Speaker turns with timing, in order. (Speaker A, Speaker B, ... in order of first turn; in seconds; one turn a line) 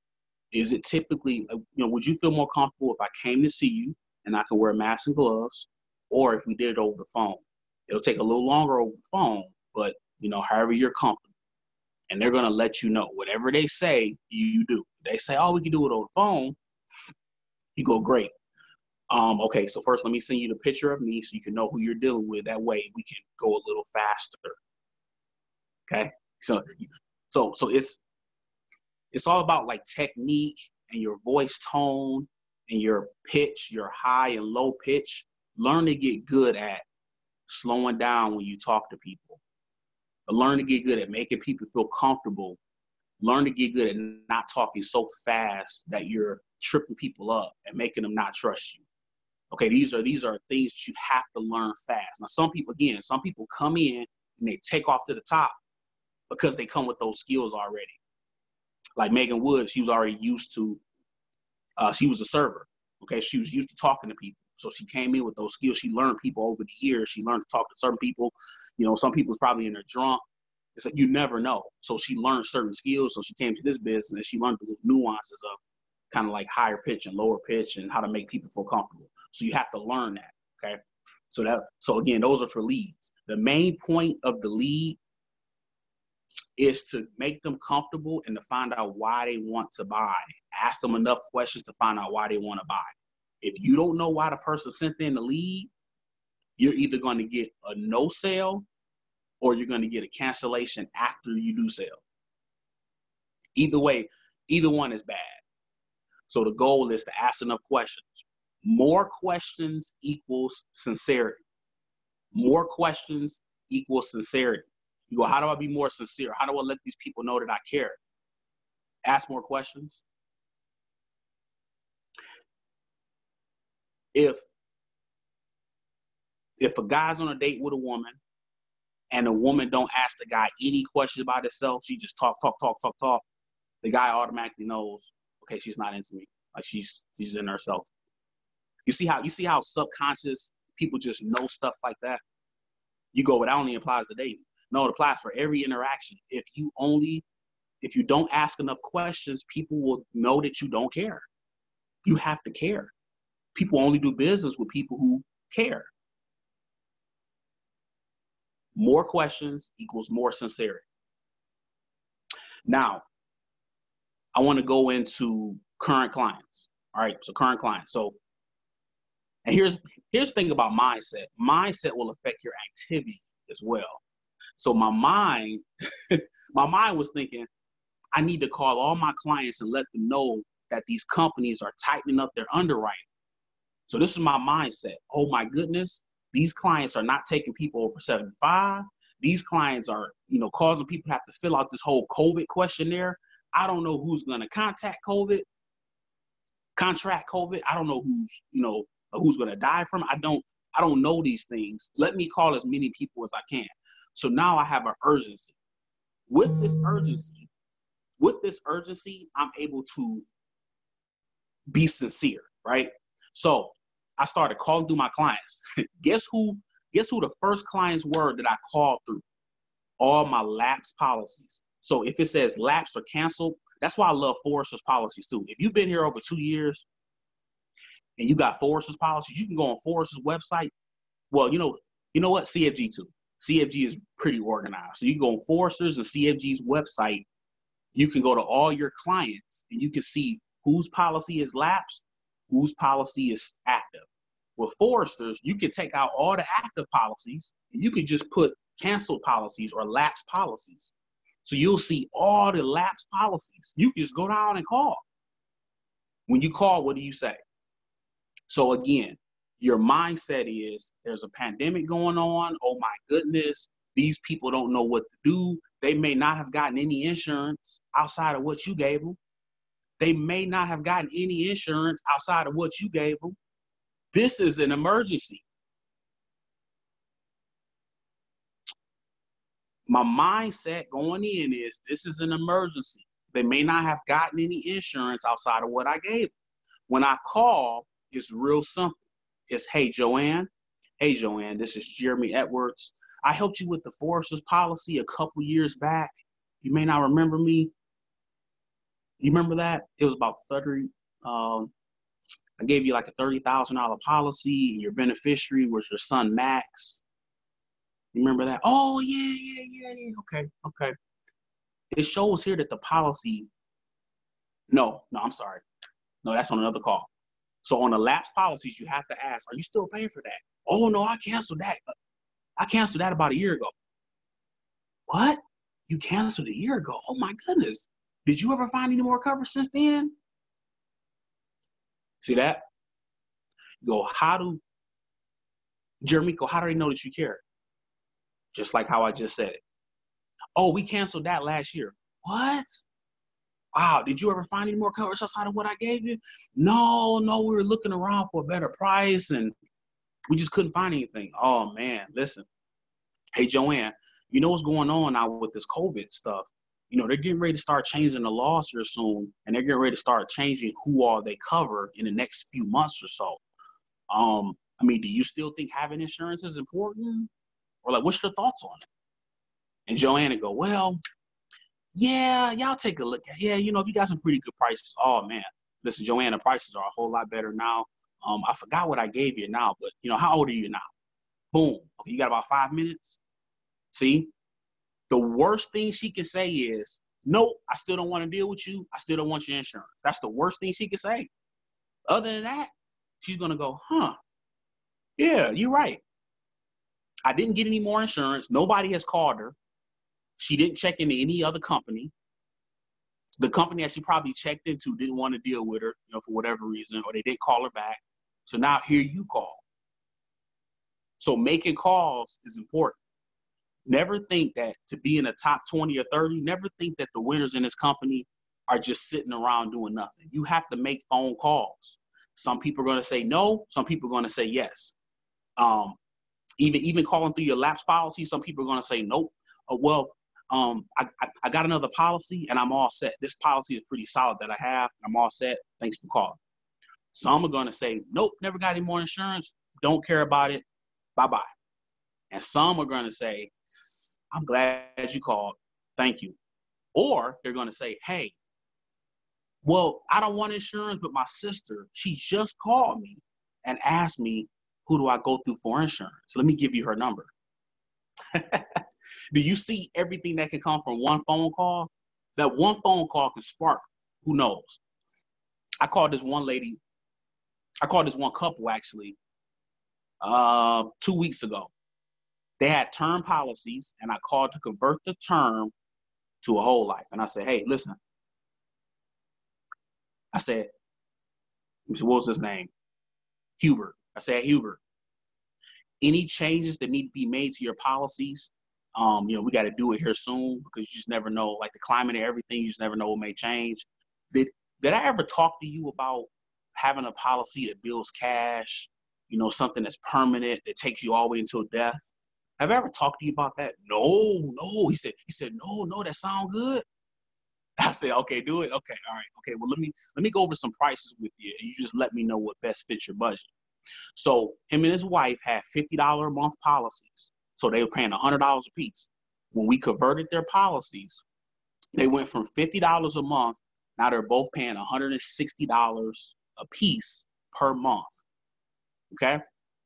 Speaker A: 0.5-11.3
Speaker A: 12.1-16.6
Speaker A: 17.8-18.3
Speaker A: 19.1-24.6
Speaker A: 25.9-28.0
Speaker A: 29.1-36.8
Speaker A: 37.5-39.4
Speaker A: 40.3-42.6
Speaker A: 43.2-48.8
Speaker A: 49.5-55.6
Speaker A: 56.3-58.0
Speaker A: 59.0-60.8
Speaker A: 61.8-70.2
Speaker A: 70.8-75.6
Speaker A: 76.1-85.0
Speaker A: 86.6-95.7
Speaker A: 96.6-98.7
Speaker A: 99.4-102.0
Speaker A: 103.6-105.4
Speaker A: 106.3-111.4
Speaker A: 112.3-118.0
Speaker A: 119.0-120.0
Speaker A: 124.1-124.5
Speaker A: 126.6-128.2
Speaker A: 129.1-133.2
Speaker A: 133.8-137.9
Speaker A: 138.9-142.2
Speaker A: 143.1-147.2
Speaker A: 147.8-151.3
Speaker A: 152.1-152.9
Speaker A: 153.6-155.9
Speaker A: 158.8-160.9
Speaker A: 162.7-163.1
Speaker A: 164.3-168.2
Speaker A: 169.4-174.0
Speaker A: 174.6-177.5
Speaker A: 178.2-183.1
Speaker A: 183.9-195.5
Speaker A: 196.8-205.5
Speaker A: 206.3-207.5
Speaker A: 208.2-210.3
Speaker A: 211.7-219.2
Speaker A: 220.0-226.8
Speaker A: 228.2-230.7
Speaker A: 231.3-237.3
Speaker A: 237.9-250.9
Speaker A: 251.4-255.0
Speaker A: 256.3-257.4
Speaker A: 258.5-269.2
Speaker A: 270.0-273.4
Speaker A: 274.1-275.4
Speaker A: 279.9-286.3
Speaker A: 286.9-297.7
Speaker A: 299.2-301.7
Speaker A: 302.6-307.0
Speaker A: 308.1-310.9
Speaker A: 311.9-313.5
Speaker A: 314.7-315.6
Speaker A: 316.2-317.1
Speaker A: 317.6-321.8
Speaker A: 322.6-323.7
Speaker A: 325.1-330.1
Speaker A: 332.2-332.6
Speaker A: 333.8-334.6
Speaker A: 336.0-337.4
Speaker A: 338.5-339.6
Speaker A: 340.6-342.8
Speaker A: 343.8-349.5
Speaker A: 350.3-352.5
Speaker A: 353.4-363.4
Speaker A: 364.1-367.3
Speaker A: 367.8-368.9
Speaker A: 369.9-371.0
Speaker A: 371.9-380.9
Speaker A: 381.5-383.2
Speaker A: 383.9-384.3
Speaker A: 385.1-391.3
Speaker A: 392.1-394.1
Speaker A: 395.2-396.0
Speaker A: 397.3-399.6
Speaker A: 400.4-402.1
Speaker A: 403.4-409.6
Speaker A: 411.2-413.0
Speaker A: 413.9-424.9
Speaker A: 425.6-426.0
Speaker A: 426.6-436.4
Speaker A: 437.1-440.6
Speaker A: 441.2-441.5
Speaker A: 442.3-443.5
Speaker A: 444.3-446.4
Speaker A: 446.9-448.4
Speaker A: 449.6-457.3
Speaker A: 458.3-458.6
Speaker A: 459.3-464.8
Speaker A: 465.8-466.8
Speaker A: 467.8-469.2
Speaker A: 470.2-471.7
Speaker A: 472.6-475.7
Speaker A: 476.4-478.0
Speaker A: 480.3-480.7
Speaker A: 481.9-482.7
Speaker A: 483.6-484.8
Speaker A: 486.0-506.8
Speaker A: 507.8-513.5
Speaker A: 514.1-521.2
Speaker A: 522.0-528.2
Speaker A: 529.1-529.4